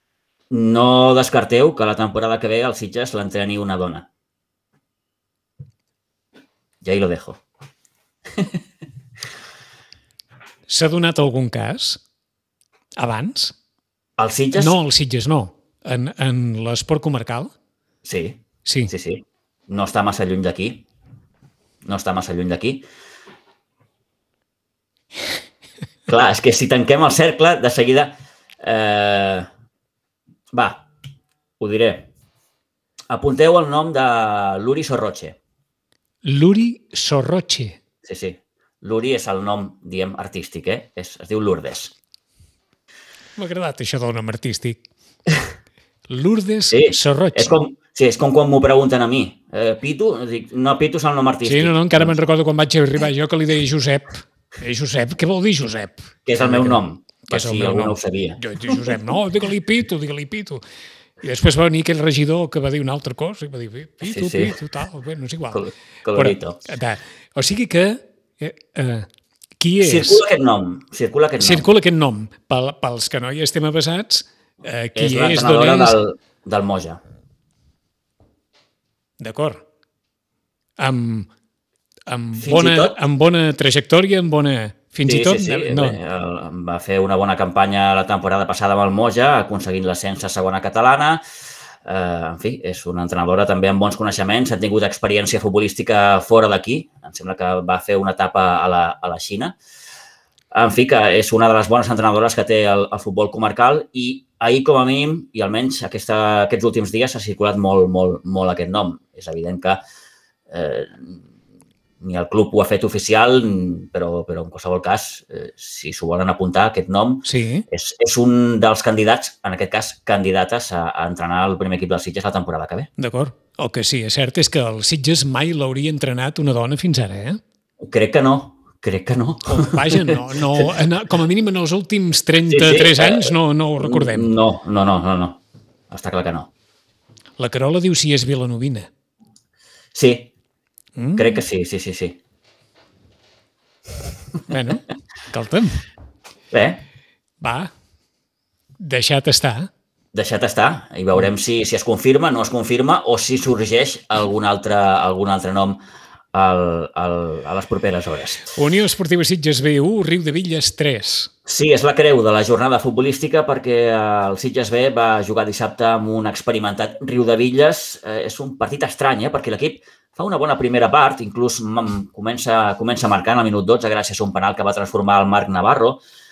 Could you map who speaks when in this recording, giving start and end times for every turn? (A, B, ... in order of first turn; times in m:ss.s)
0:00.5-0:04.1 A
0:06.8-0:07.4 A
0:10.7-0:12.0 B
0:13.0-0:13.5 B
0:14.2-0:14.8 A
0:14.5-0:17.5 B
0:18.0-0:20.8 A
0:18.6-0:18.9 B
0:21.8-0:22.8 A
0:26.1-0:29.5 A
0:30.5-0:30.8 A
0:31.6-0:32.1 A
0:33.1-0:35.4 A
0:36.2-0:37.8 B
0:38.0-0:41.9 A
0:43.4-0:44.8 B
0:46.1-0:47.6 B
0:46.7-0:52.1 A
0:51.4-1:00.6 B
0:56.2-0:58.4 A
1:01.2-1:05.6 B
1:04.0-1:04.6 A
1:05.5-1:06.6 A
1:06.1-1:09.1 B
1:09.6-1:10.2 B
1:09.8-1:11.7 A
1:11.4-1:16.0 B
1:15.0-1:17.0 A
1:19.2-1:19.6 B
1:20.8-1:21.3 B
1:22.1-1:26.0 B
1:22.4-1:23.0 A
1:25.0-1:31.2 A
1:31.8-1:39.6 A
1:40.5-1:49.8 A
1:50.5-1:51.2 A
1:52.0-2:02.9 A
1:57.2-1:57.6 B
2:03.0-2:07.4 B
2:07.8-2:10.3 A
2:09.5-2:14.3 B
2:12.4-2:16.5 A
2:17.4-2:18.9 B
2:19.9-2:20.3 A
2:21.0-2:21.4 B
2:21.2-2:22.2 A
2:24.5-2:25.8 B
2:26.5-2:26.8 A
2:27.4-2:27.7 B
2:28.8-2:29.7 B
2:30.1-2:35.8 A
2:36.3-2:38.5 A
2:38.5-2:41.3 B
2:41.4-2:56.0 A